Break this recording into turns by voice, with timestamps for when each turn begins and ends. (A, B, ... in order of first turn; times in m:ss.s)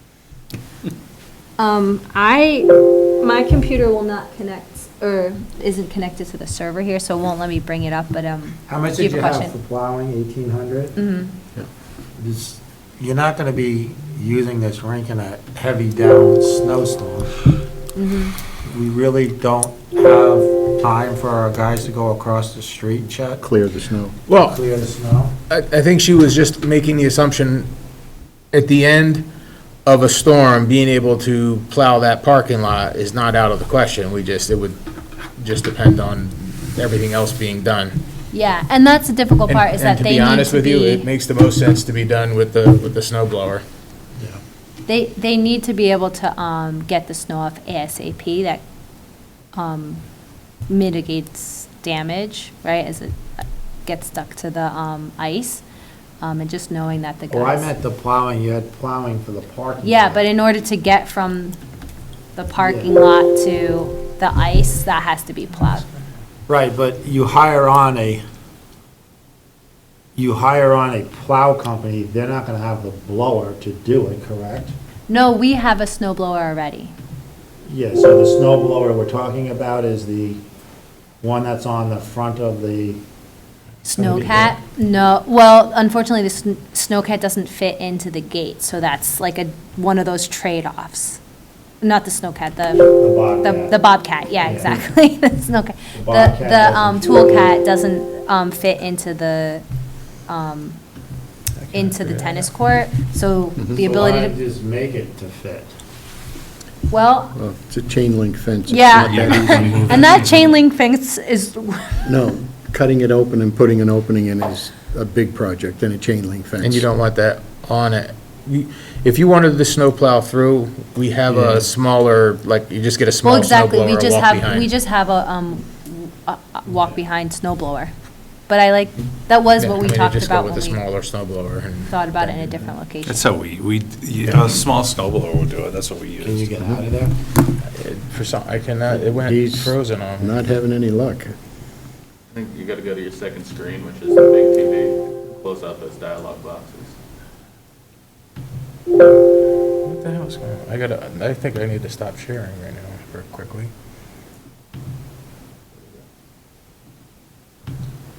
0:01.6-0:09.5 A
0:08.7-0:10.9 B
0:11.0-0:11.3 A
0:12.2-0:17.4 B
0:17.9-0:18.4 A
0:18.6-0:23.5 B
0:23.4-0:24.2 C
0:24.3-0:24.6 D
0:24.3-0:25.3 B
0:25.5-0:27.7 D
0:28.5-0:29.3 D
0:29.8-0:34.8 D
0:35.4-0:38.0 D
0:38.3-0:41.1 A
0:39.5-0:43.6 D
0:44.8-0:48.6 A
0:49.5-0:50.0 A
0:50.7-0:55.6 A
0:56.2-0:57.7 A
0:57.3-1:00.2 B
0:59.8-1:01.6 A
1:02.4-1:05.9 A
1:02.6-1:02.9 B
1:06.5-1:08.2 B
1:10.2-1:14.7 B
1:15.1-1:16.9 A
1:17.6-1:20.4 B
1:21.2-1:23.0 B
1:23.8-1:31.2 A
1:23.9-1:24.5 B
1:31.8-1:32.9 A
1:33.0-1:33.7 B
1:33.4-1:39.6 A
1:34.4-1:34.8 B
1:35.9-1:37.5 B
1:40.3-1:40.8 A
1:41.6-1:42.5 D
1:41.7-1:44.4 A
1:43.8-1:45.7 B
1:46.9-1:47.4 A
1:47.3-1:50.2 C
1:48.7-1:52.1 A
1:49.0-1:50.4 E
1:52.0-1:56.8 C
1:56.6-2:04.7 D
2:01.3-2:01.6 B
2:03.2-2:07.9 A
2:08.5-2:10.8 A
2:09.6-2:12.7 D
2:11.9-2:13.2 A
2:13.0-2:16.5 E
2:16.2-2:17.1 B
2:16.6-2:16.8 C
2:17.6-2:20.3 D
2:18.9-2:21.3 C
2:22.3-2:26.9 F
2:29.8-2:33.7 D